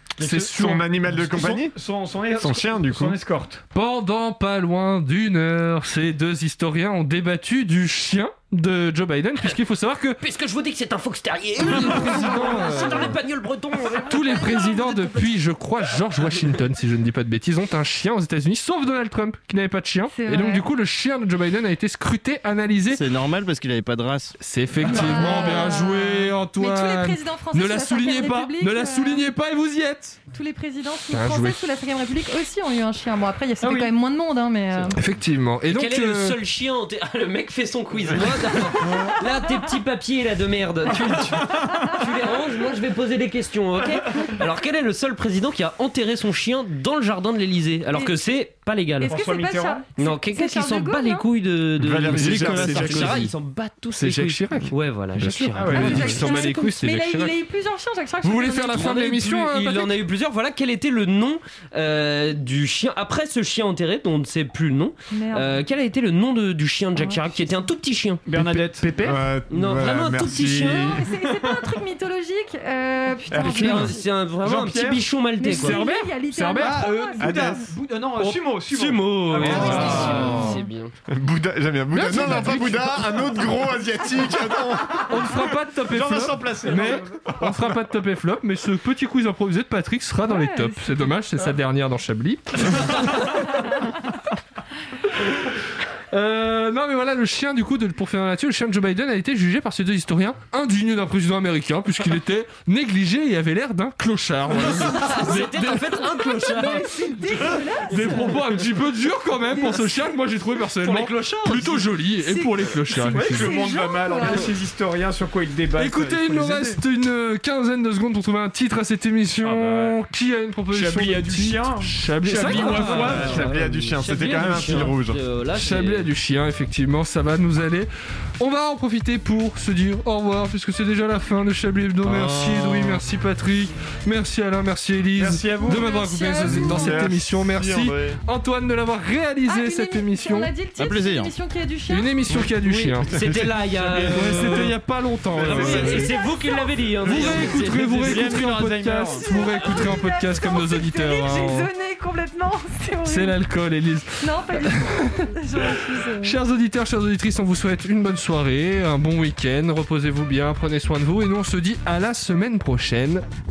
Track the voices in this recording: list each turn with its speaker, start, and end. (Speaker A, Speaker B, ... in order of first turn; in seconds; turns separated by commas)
Speaker A: 0.2-0.9, Speaker B: 0.2-3.6, Speaker C: 0.4-1.8, Speaker C: 2.3-3.2, Speaker A: 3.7-10.2, Speaker D: 10.2-15.4, Speaker A: 11.6-13.2, Speaker A: 14.1-23.0, Speaker E: 20.1-20.6, Speaker F: 22.9-24.4, Speaker A: 24.4-30.2, Speaker B: 24.8-25.2, Speaker E: 24.9-29.2, Speaker E: 30.3-35.0, Speaker A: 31.1-31.6, Speaker B: 33.6-33.9, Speaker A: 34.9-36.4, Speaker D: 35.7-49.2, Speaker B: 40.9-41.9, Speaker E: 49.0-51.2, Speaker B: 49.0-49.9, Speaker D: 50.0-56.5, Speaker C: 51.8-53.3, Speaker F: 52.2-53.2, Speaker A: 52.3-53.3, Speaker A: 53.9-57.4, Speaker B: 55.6-56.1, Speaker E: 55.8-59.2, Speaker A: 58.2-59.9, Speaker D: 58.8-68.2, Speaker E: 65.1-65.6, Speaker E: 67.0-67.4, Speaker B: 68.2-68.9, Speaker A: 68.4-69.2, Speaker C: 69.0-71.2, Speaker D: 69.5-71.0, Speaker E: 70.6-73.9, Speaker B: 71.3-71.7, Speaker C: 73.3-74.0, Speaker D: 73.3-75.8, Speaker B: 74.4-75.1, Speaker E: 75.4-77.7, Speaker A: 75.5-77.0, Speaker B: 76.3-80.5, Speaker C: 77.2-77.6, Speaker D: 78.2-80.9, Speaker A: 79.3-80.6, Speaker C: 81.1-85.4, Speaker A: 81.9-83.1, Speaker A: 85.1-93.3, Speaker B: 85.9-87.3, Speaker C: 87.3-87.8, Speaker E: 90.2-90.9, Speaker A: 96.1-106.6, Speaker D: 104.5-107.0, Speaker E: 106.4-108.3, Speaker A: 107.4-113.7, Speaker E: 109.5-110.1, Speaker D: 110.8-111.9, Speaker E: 112.2-114.5, Speaker B: 113.2-116.8, Speaker A: 115.8-123.5, Speaker B: 119.4-119.9, Speaker B: 120.7-123.9, Speaker C: 122.5-125.2, Speaker D: 123.1-126.1, Speaker B: 124.5-124.8, Speaker A: 125.5-140.5, Speaker F: 132.0-133.0, Speaker E: 135.5-137.0, Speaker C: 136.4-138.2, Speaker E: 139.5-142.1, Speaker F: 140.8-141.3, Speaker A: 141.9-143.5, Speaker D: 142.6-144.8, Speaker B: 143.7-144.3, Speaker A: 144.0-146.1, Speaker D: 145.3-148.2, Speaker B: 145.6-145.8, Speaker E: 146.0-146.7, Speaker A: 147.0-151.7, Speaker B: 147.1-149.3, Speaker E: 149.1-153.4, Speaker A: 153.0-154.9, Speaker E: 154.2-156.3, Speaker A: 156.2-163.2